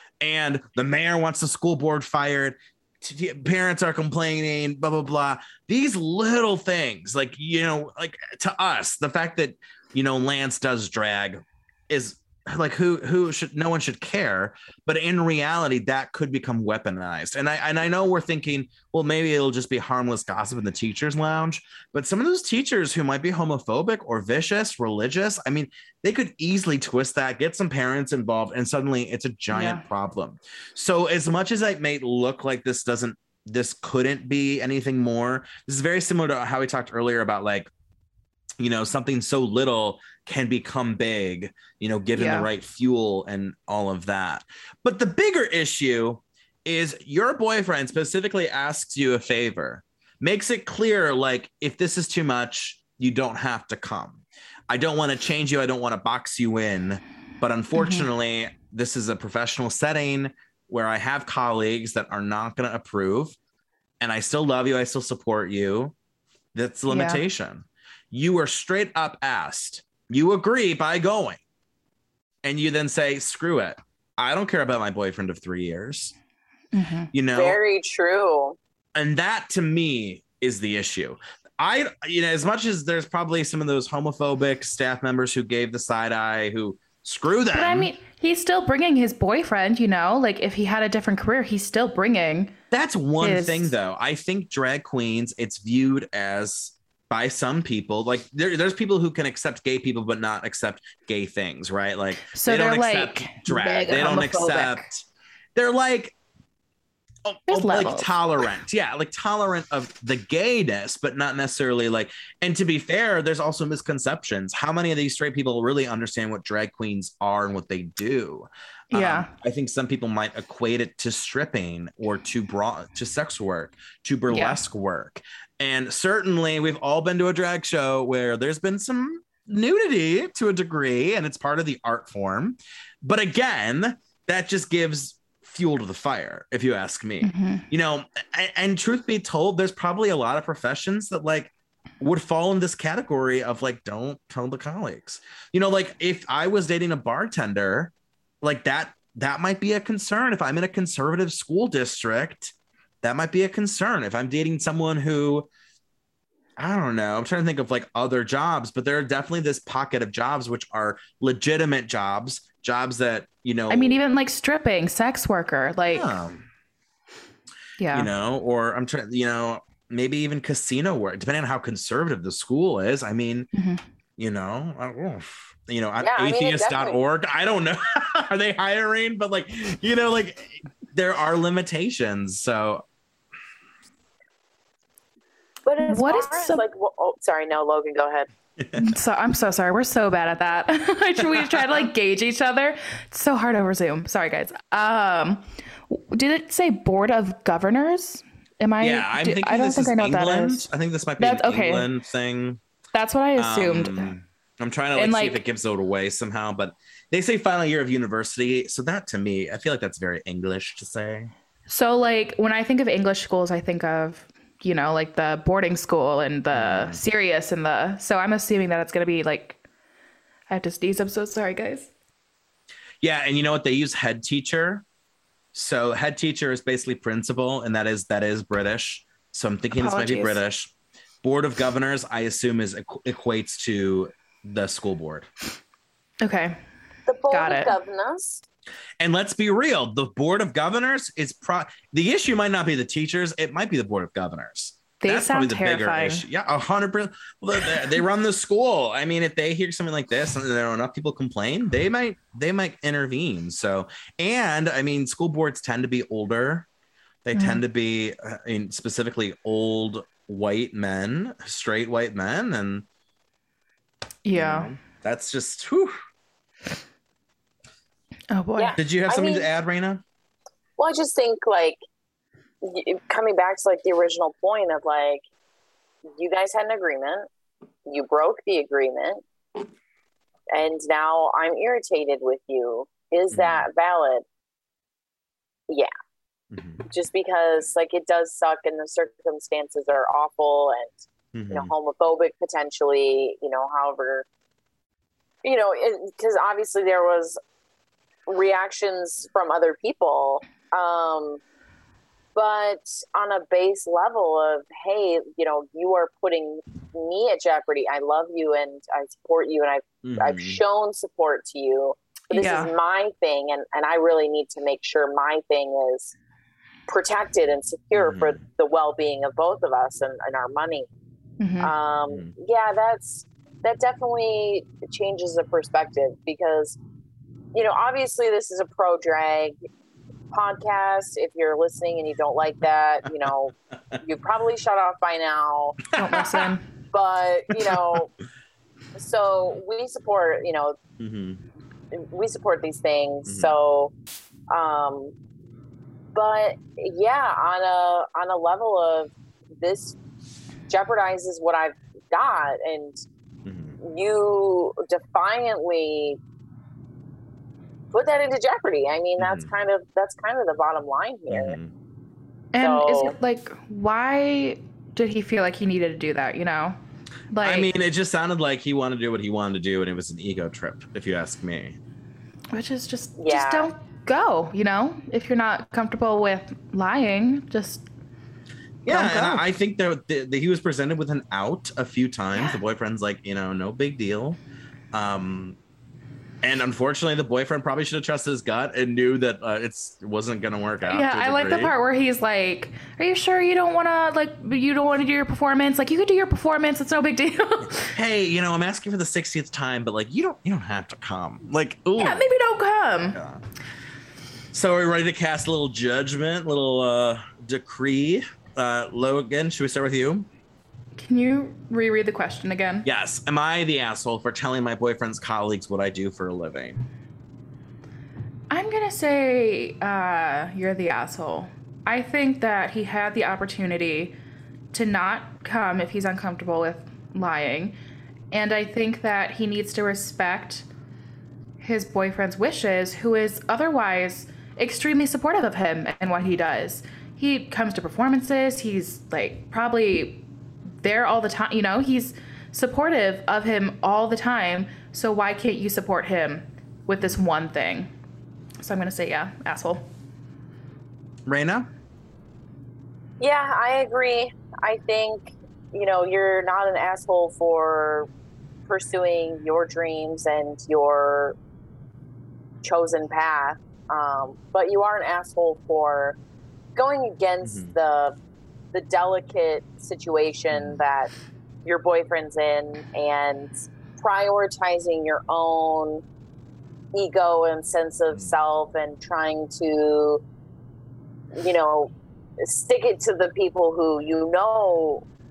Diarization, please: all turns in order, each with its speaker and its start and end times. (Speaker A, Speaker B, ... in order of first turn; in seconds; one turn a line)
Speaker A: 0.2-37.7
Speaker B: 29.5-29.8
Speaker A: 38.6-63.4
Speaker B: 42.1-42.5
Speaker B: 57.7-58.1
Speaker A: 64.0-65.9
Speaker A: 66.5-71.4
Speaker B: 66.9-67.2
Speaker A: 72.4-76.1
Speaker B: 76.7-77.1
Speaker A: 77.1-77.6
Speaker C: 77.3-78.5
Speaker A: 78.9-87.9
Speaker B: 87.5-92.5
Speaker A: 92.7-105.0
Speaker B: 93.2-93.7
Speaker B: 102.2-104.8
Speaker A: 105.5-106.2
Speaker A: 107.2-155.5
Speaker B: 107.5-108.1
Speaker B: 118.9-119.3
Speaker B: 124.3-124.6
Speaker B: 137.2-137.7
Speaker A: 156.6-164.0
Speaker B: 163.7-166.2
Speaker A: 165.9-166.5
Speaker B: 167.8-168.1
Speaker A: 167.9-173.5
Speaker B: 173.5-173.8
Speaker A: 174.2-182.8
Speaker C: 176.0-176.8
Speaker C: 185.7-188.3
Speaker B: 185.8-186.6
Speaker B: 188.7-201.9
Speaker A: 198.8-202.6
Speaker B: 202.9-204.1
Speaker A: 203.4-211.3
Speaker B: 204.9-205.4
Speaker B: 211.7-219.6
Speaker A: 216.5-217.0
Speaker B: 220.5-221.9
Speaker A: 223.0-224.8
Speaker A: 225.5-230.7
Speaker B: 229.7-230.4
Speaker A: 231.2-235.3
Speaker B: 236.2-236.5
Speaker C: 237.1-238.4
Speaker B: 237.2-237.8
Speaker A: 239.0-256.7
Speaker B: 245.0-246.2
Speaker A: 257.2-262.8
Speaker B: 257.3-257.6
Speaker B: 264.2-264.7
Speaker A: 264.3-265.9
Speaker B: 268.3-268.8
Speaker C: 268.6-269.5
Speaker A: 268.8-270.0
Speaker C: 270.8-271.8
Speaker C: 272.6-275.2
Speaker C: 276.1-277.2
Speaker C: 277.9-279.2
Speaker C: 280.5-284.2
Speaker A: 283.3-283.7
Speaker A: 286.5-286.8
Speaker C: 286.9-290.9
Speaker A: 291.3-291.7
Speaker C: 291.5-294.2
Speaker C: 295.4-297.4
Speaker C: 298.3-301.4
Speaker C: 302.4-316.1
Speaker A: 310.0-310.6
Speaker B: 312.3-312.7
Speaker C: 316.9-320.9
Speaker A: 317.9-318.4
Speaker B: 321.4-321.7
Speaker C: 321.6-326.8
Speaker C: 327.5-329.5
Speaker C: 330.3-335.9
Speaker B: 335.9-336.6
Speaker A: 336.1-336.5
Speaker C: 336.9-338.1
Speaker A: 337.6-337.9
Speaker C: 338.9-340.7
Speaker A: 341.0-341.4
Speaker C: 342.1-343.9
Speaker A: 343.3-343.5
Speaker C: 344.5-345.1
Speaker C: 346.1-349.9
Speaker C: 350.7-352.9
Speaker A: 353.4-353.8
Speaker C: 353.8-356.2
Speaker C: 357.9-361.5
Speaker A: 359.2-359.5
Speaker A: 361.3-361.7
Speaker B: 362.5-366.8
Speaker C: 362.6-363.1
Speaker B: 367.3-367.7
Speaker A: 367.4-371.8
Speaker B: 372.5-377.9
Speaker C: 373.2-373.7
Speaker A: 378.8-384.4
Speaker B: 378.9-379.4
Speaker A: 384.9-385.6
Speaker A: 386.4-391.7
Speaker B: 390.9-397.9
Speaker A: 397.9-402.3
Speaker B: 401.9-403.2
Speaker A: 403.1-403.4
Speaker A: 404.5-410.3
Speaker B: 410.9-412.9
Speaker A: 412.8-416.8
Speaker B: 418.5-424.2
Speaker B: 424.7-427.8
Speaker B: 428.3-430.7
Speaker B: 431.6-440.2
Speaker B: 440.8-447.9
Speaker B: 448.6-449.9
Speaker A: 451.3-451.7
Speaker C: 453.2-458.1
Speaker C: 458.7-461.3
Speaker C: 462.6-466.1
Speaker C: 466.8-468.1
Speaker A: 467.4-467.7
Speaker C: 468.7-471.1
Speaker A: 470.5-470.8
Speaker C: 471.6-476.0
Speaker C: 476.9-480.2
Speaker C: 481.4-481.9
Speaker C: 482.4-485.0